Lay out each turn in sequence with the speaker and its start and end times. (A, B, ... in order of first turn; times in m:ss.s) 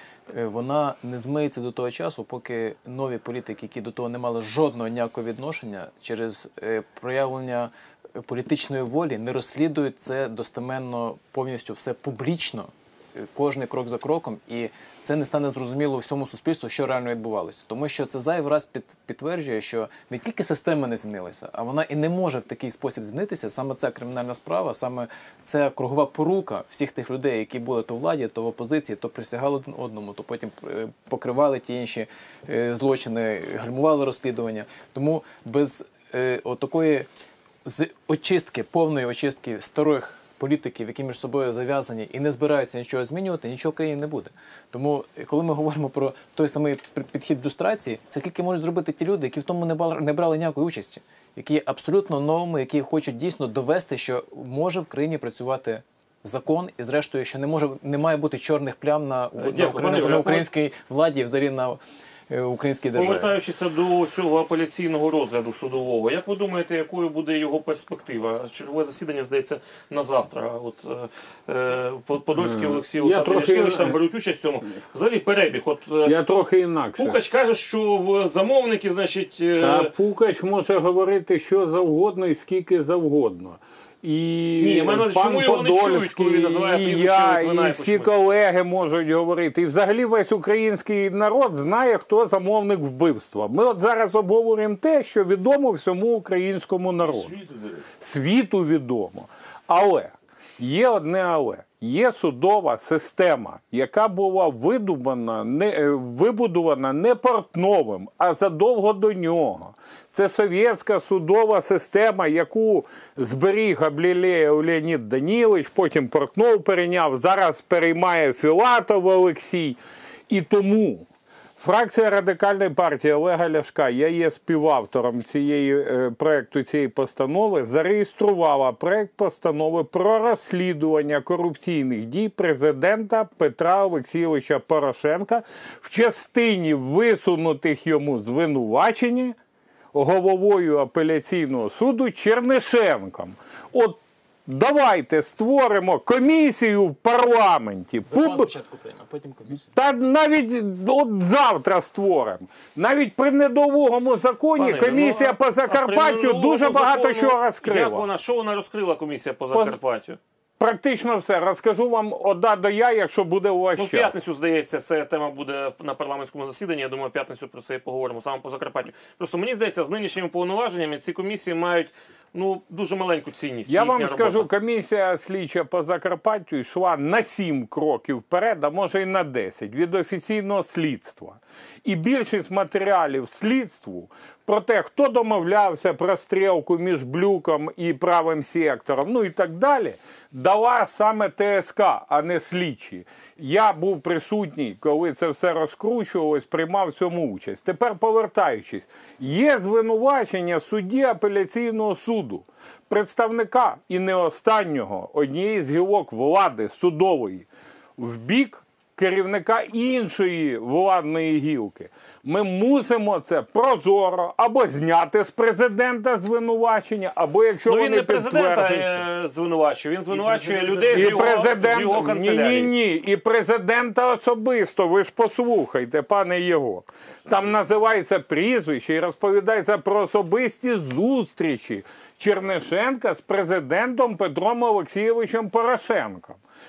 0:00.3-0:37.1 A
0:37.6-1:01.8 A
0:59.4-1:00.5 B
1:02.3-1:03.3 A
1:02.9-1:16.2 B
1:12.4-1:14.0 C
1:16.0-1:17.2 C
1:17.0-1:19.9 B
1:19.6-1:37.3 C
1:24.6-1:28.1 B
1:37.0-1:37.9 D
1:38.0-1:59.8 C
2:00.3-2:01.1 C
2:01.6-2:19.4 C
2:19.9-2:28.5 C
2:28.0-2:29.7 A
2:29.6-2:38.1 C
2:34.6-2:40.2 B
2:39.5-2:39.8 C
2:40.6-2:44.2 C
2:43.8-2:54.5 B
2:53.7-3:39.0 C
3:37.6-3:42.7 B
3:40.1-3:41.0 D
3:40.9-3:56.4 C
3:47.2-3:47.6 D